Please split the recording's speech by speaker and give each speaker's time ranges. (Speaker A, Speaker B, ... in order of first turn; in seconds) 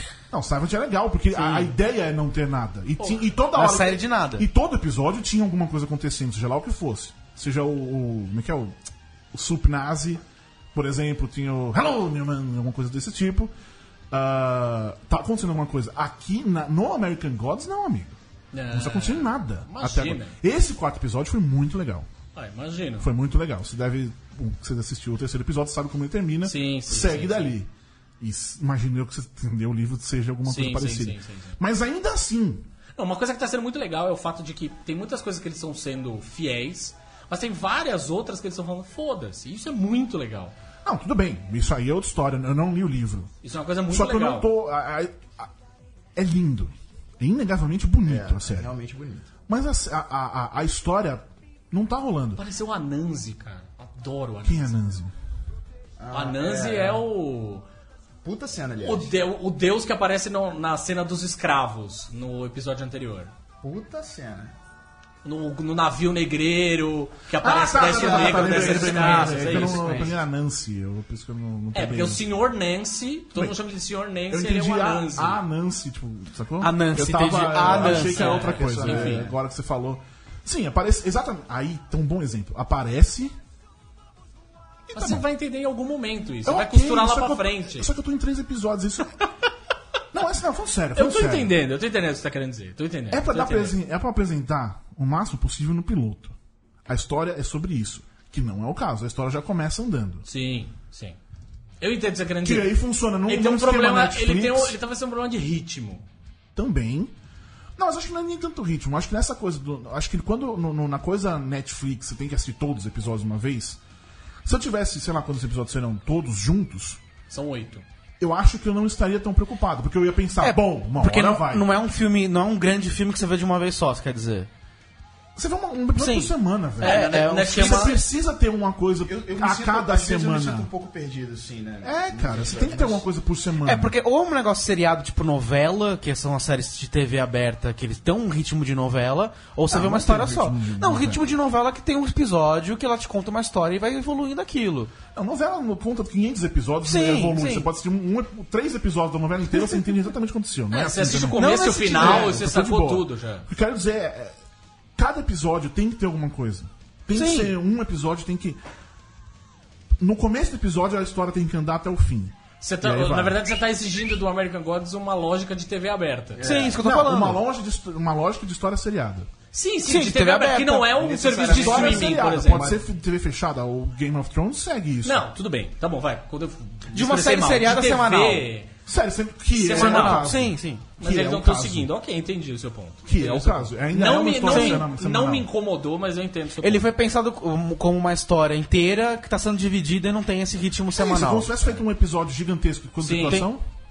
Speaker A: 0.3-8.8, 9.3-10.2, 10.7-13.5, 14.1-18.2, 18.7-22.1, 23.0-27.7, 28.2-32.7, 40.8-43.3, 43.9-45.5, 46.1-48.7, 49.5-52.4, 54.4-55.1, 67.4-72.2, 74.3-83.3, 84.9-85.2, 86.4-89.2, 90.1-91.5, 93.1-96.3, 96.8-100.2, 102.4-104.8, 106.5-107.1, 107.8-113.8, 114.4-117.0, 118.2-121.7, 125.3-130.7, 131.8-133.9, 139.7-141.3, 145.1-154.3, 155.0-158.6, 160.0-163.4, 166.8-169.3, 171.4-175.3, 178.8-181.9, 183.0-185.5, 190.9-193.7
Speaker B: 1.4-1.7, 3.5-4.5, 76.6-78.2, 120.4-124.5, 126.0-128.0, 133.6-144.9, 146.8-147.7, 151.2-152.4, 157.1-157.5, 166.4-167.4, 169.8-170.9, 176.9-178.5, 179.7-180.8, 184.4-184.8, 186.6-191.5, 193.2-193.5
Speaker C: 18.5-20.4, 22.3-23.1, 26.4-27.5, 30.4-31.6, 33.0-40.5, 43.4-44.5, 52.4-54.7, 56.1-57.6, 58.8-63.3, 65.2-70.1, 71.7-75.4, 77.7-79.3, 84.9-87.9, 91.0-93.8, 100.2-101.2, 101.8-106.0, 117.3-117.8, 126.8-128.0, 150.7-153.5, 162.6-166.5, 169.5-172.8, 175.0-178.7, 179.5-180.3, 181.0-186.8, 193.0-193.4
Speaker D: 48.0-49.3, 56.0-57.0, 58.2-59.1, 63.6-64.5, 67.7-70.2, 77.6-79.3, 129.0-133.0, 166.3-166.8, 170.9-172.8